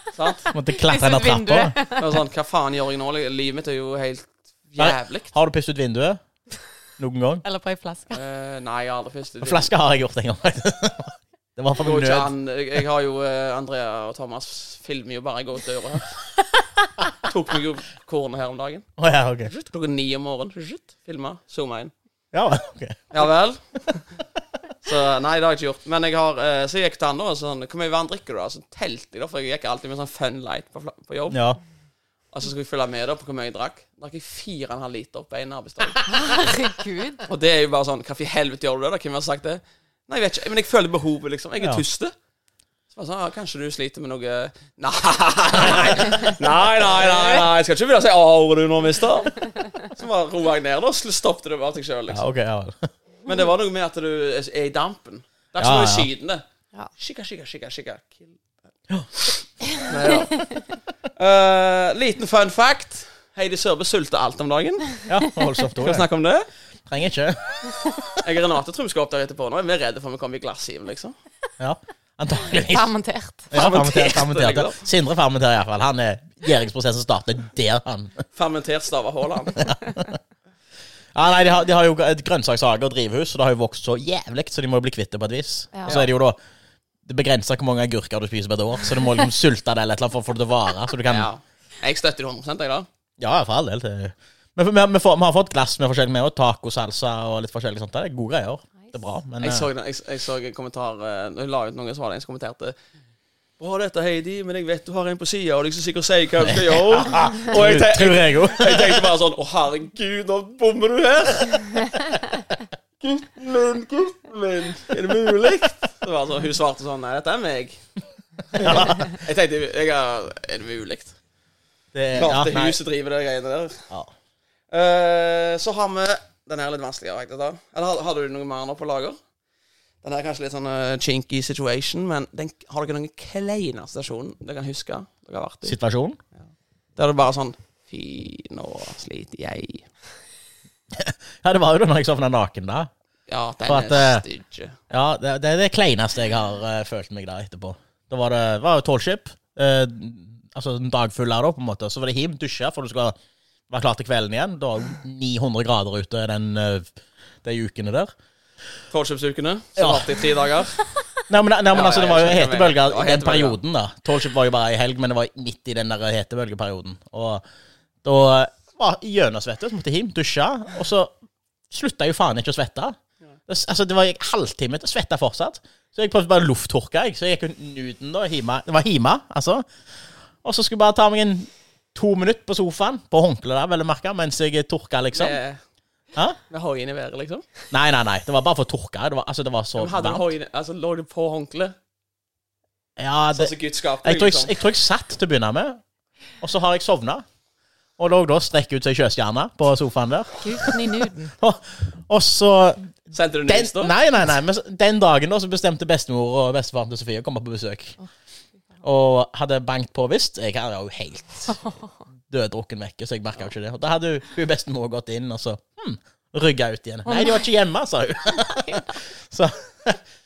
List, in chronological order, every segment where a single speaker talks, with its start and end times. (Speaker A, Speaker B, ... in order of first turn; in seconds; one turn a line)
Speaker A: 0.1-0.5
Speaker B: 0.5-1.8
Speaker C: 0.7-2.1
Speaker A: 2.0-5.3
Speaker B: 4.8-6.2
Speaker B: 7.0-7.4
Speaker C: 7.4-8.2
Speaker A: 8.1-9.7
Speaker B: 9.4-12.3
Speaker A: 11.8-16.1
Speaker A: 17.2-18.9
Speaker B: 19.0-19.5
Speaker A: 19.4-21.9
Speaker B: 22.3-23.2
Speaker A: 23.1-24.0
Speaker A: 24.8-31.4
Speaker B: 31.3-31.6
Speaker A: 32.3-36.1
Speaker C: 36.1-37.2
Speaker A: 37.2-42.1
Speaker A: 42.9-52.2
Speaker B: 45.6-46.2
Speaker B: 52.1-52.9
Speaker A: 53.2-56.4
Speaker B: 55.6-56.1
Speaker A: 57.0-58.4
Speaker A: 59.2-60.6
Speaker A: 61.1-65.0
Speaker B: 65.0-66.1
Speaker A: 65.8-66.5
Speaker B: 66.9-68.1
Speaker A: 68.2-71.1
Speaker B: 71.6-72.9
Speaker C: 72.6-73.6
Speaker B: 73.5-78.2
Speaker A: 73.5-74.8
Speaker A: 78.3-79.7
Speaker B: 79.6-80.2
Speaker B: 81.1-86.4
Speaker C: 85.7-86.0
Speaker B: 87.0-91.3
Speaker A: 91.1-92.9
Speaker B: 93.2-99.7
Speaker A: 99.4-102.8
Speaker A: 103.6-112.0
Speaker B: 106.4-109.1
Speaker A: 113.0-117.8
Speaker B: 118.5-119.1
Speaker A: 118.5-121.2
Speaker B: 121.9-122.8
Speaker A: 122.1-123.9
Speaker A: 124.7-129.2
Speaker A: 130.0-135.8
Speaker B: 135.6-136.2
Speaker A: 137.0-139.8
Speaker B: 140.9-142.9
Speaker A: 143.3-144.8
Speaker B: 143.6-144.2
Speaker B: 144.9-153.1
Speaker B: 153.7-156.9
Speaker B: 157.4-158.1
Speaker A: 158.9-160.8
Speaker B: 159.8-160.1
Speaker B: 161.3-167.4
Speaker A: 161.7-163.6
Speaker B: 168.0-171.1
Speaker B: 171.7-172.9
Speaker B: 173.5-179.7
Speaker B: 180.4-185.4
Speaker A: 185.1-185.6
Speaker A: 186.5-187.5
Speaker B: 187.7-190.3
Speaker A: 189.8-191.7
Speaker B: 193.0-195.8
Speaker A: 193.3-194.5
Speaker B: 196.4-197.2
Speaker B: 198.0-202.9
Speaker C: 200.4-201.3
Speaker A: 203.1-203.9
Speaker B: 203.4-208.0
Speaker B: 208.8-211.6
Speaker B: 212.3-220.0
Speaker C: 217.1-217.4